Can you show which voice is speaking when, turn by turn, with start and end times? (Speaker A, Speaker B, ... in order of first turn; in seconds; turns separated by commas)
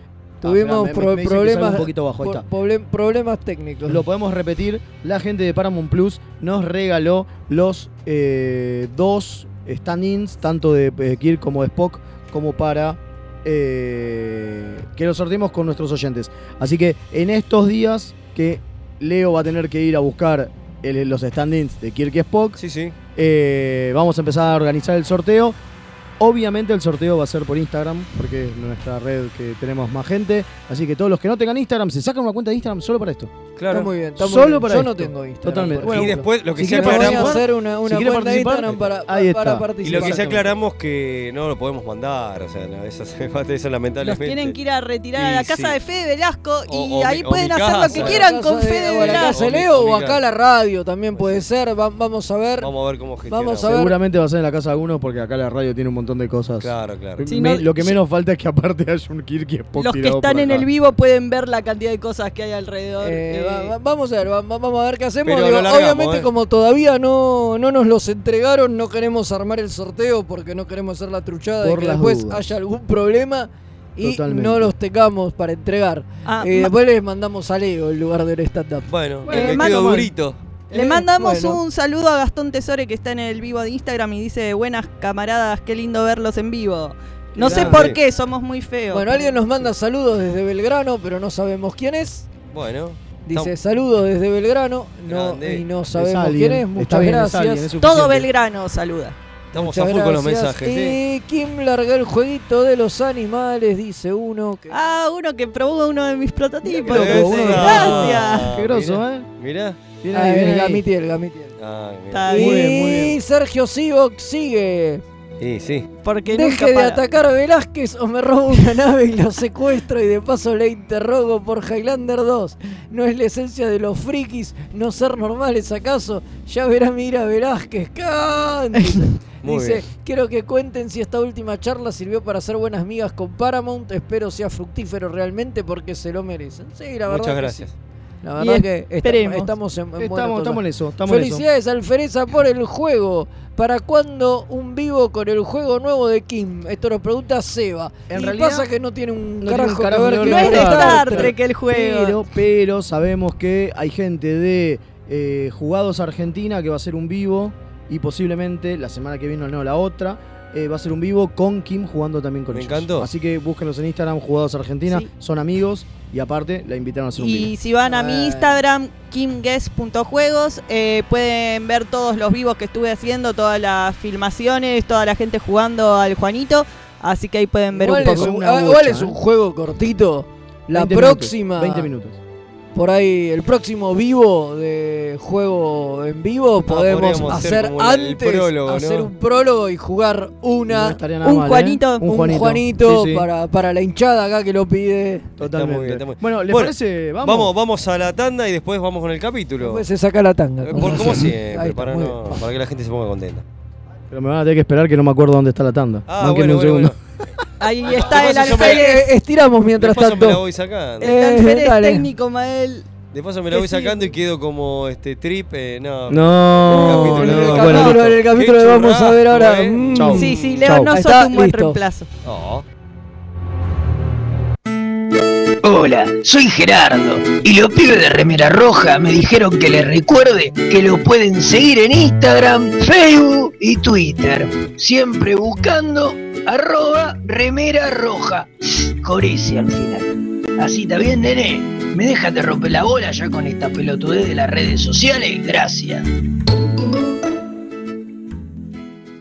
Speaker A: 0.4-2.5, Speaker B: 0.4-4.0, Speaker A: 3.9-22.6, Speaker C: 22.6-22.9, Speaker A: 23.2-25.6, Speaker A: 26.2-33.3, Speaker C: 33.6-33.9, Speaker B: 33.7-40.4, Speaker A: 34.2-40.4, Speaker C: 35.9-37.4, Speaker C: 39.8-44.6, Speaker D: 44.0-49.4, Speaker C: 45.1-45.8, Speaker C: 46.7-48.3, Speaker B: 47.9-52.7, Speaker C: 49.0-50.2, Speaker C: 51.1-51.5, Speaker C: 52.6-53.7, Speaker B: 53.3-54.0, Speaker A: 53.7-60.7, Speaker C: 56.6-57.2, Speaker D: 57.3-58.0, Speaker D: 59.8-63.7, Speaker B: 63.0-79.5, Speaker C: 65.2-66.3, Speaker A: 71.6-72.4, Speaker A: 74.0-74.7, Speaker D: 76.3-76.7, Speaker C: 78.9-80.4, Speaker A: 79.3-80.0, Speaker D: 79.3-80.0, Speaker B: 80.7-81.6, Speaker D: 80.7-89.4, Speaker A: 87.4-87.9, Speaker C: 87.4-88.0, Speaker B: 88.9-92.3, Speaker C: 92.5-93.5, Speaker B: 93.3-97.7, Speaker C: 95.1-95.6, Speaker A: 95.9-98.3, Speaker D: 97.8-99.2, Speaker C: 99.5-101.0, Speaker B: 99.5-104.8, Speaker D: 104.7-108.5, Speaker A: 106.8-109.3, Speaker C: 106.8-109.8, Speaker A: 110.0-110.8, Speaker B: 110.1-111.5, Speaker C: 111.6-112.4, Speaker D: 112.1-112.7, Speaker A: 112.3-113.2, Speaker B: 112.3-115.0, Speaker C: 115.4-115.9, Speaker D: 116.0-117.0, Speaker B: 116.3-137.7, Speaker C: 129.4-129.8, Speaker C: 137.1-137.7, Speaker B: 138.2-151.3, Speaker D: 138.4-139.5, Speaker A: 140.0-141.5, Speaker A: 148.1-148.7, Speaker A: 149.4-167.5, Speaker D: 150.2-152.2, Speaker C: 162.5-163.1, Speaker D: 167.2-178.3, Speaker B: 167.8-168.6, Speaker B: 177.7-181.9, Speaker A: 178.0-179.2, Speaker A: 180.7-182.2, Speaker B: 182.8-191.0, Speaker C: 186.7-189.1, Speaker A: 190.7-193.3, Speaker D: 191.2-192.1, Speaker B: 192.1-195.3, Speaker A: 195.4-197.5, Speaker C: 195.4-199.8, Speaker B: 199.6-202.4, Speaker C: 200.6-203.4, Speaker A: 204.1-206.9, Speaker C: 206.1-207.0, Speaker D: 207.6-209.1, Speaker C: 207.8-209.0, Speaker B: 208.6-210.4, Speaker C: 209.8-211.2, Speaker B: 211.0-212.1, Speaker D: 211.0-212.9, Speaker C: 213.1-220.1, Speaker D: 213.5-214.0, Speaker A: 216.1-217.9, Speaker B: 216.7-221.8, Speaker D: 217.6-217.9, Speaker A: 219.9-220.9, Speaker D: 220.2-222.1, Speaker C: 222.2-222.7, Speaker E: 225.6-240.1, Speaker E: 240.6-246.1